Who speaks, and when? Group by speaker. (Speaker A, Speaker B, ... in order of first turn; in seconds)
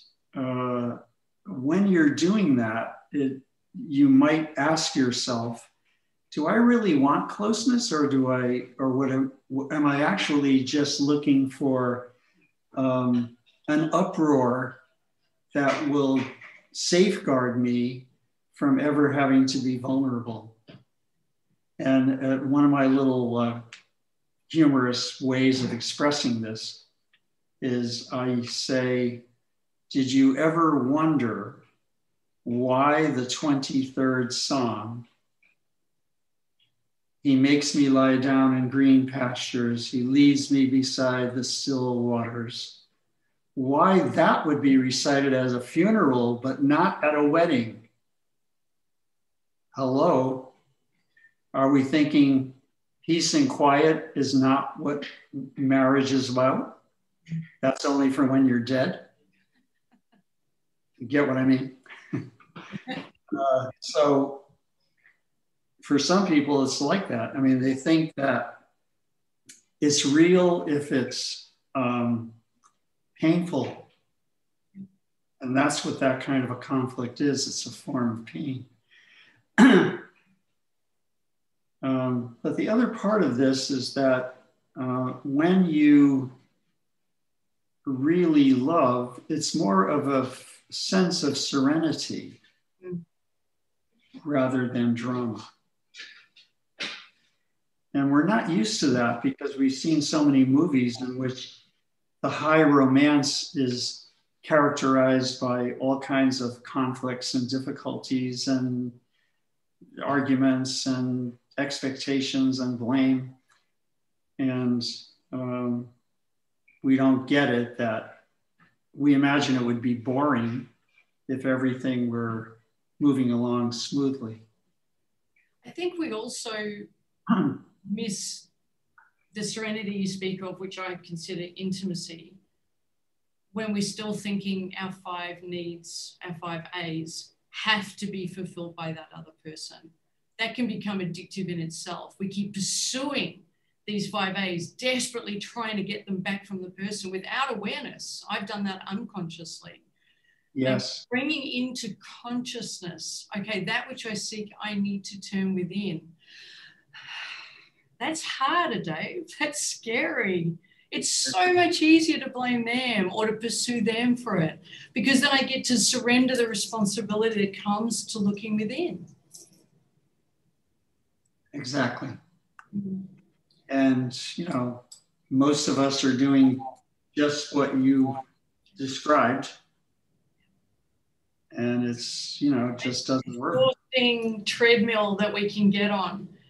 Speaker A: 0.3-5.7, 6.3-12.1, 12.7-14.8, 15.5-20.6, 21.8-23.6, 24.5-26.8, 27.6-29.2, 29.9-31.6, 32.4-35.0, 37.2-42.8, 43.5-47.9, 49.7-50.5, 51.5-56.8, 57.6-59.1, 61.0-62.2, 62.9-64.5, 65.8-68.6, 69.8-72.3, 73.2-73.9, 75.4-78.7, 79.6-80.1, 81.8-86.3, 87.8-92.4, 94.2-95.5, 97.9-101.6, 102.2-109.0, 110.0-113.3, 114.4-115.9, 116.8-118.2, 118.9-120.7, 121.3-124.4, 150.5-151.0, 171.5-172.2, 173.7-178.2, 178.8-179.5, 181.5-183.7
Speaker B: 125.6-126.9, 127.5-128.5, 129.3-132.4, 133.5-149.8, 150.6-156.1, 158.0-169.1, 172.7-173.1, 183.4-186.3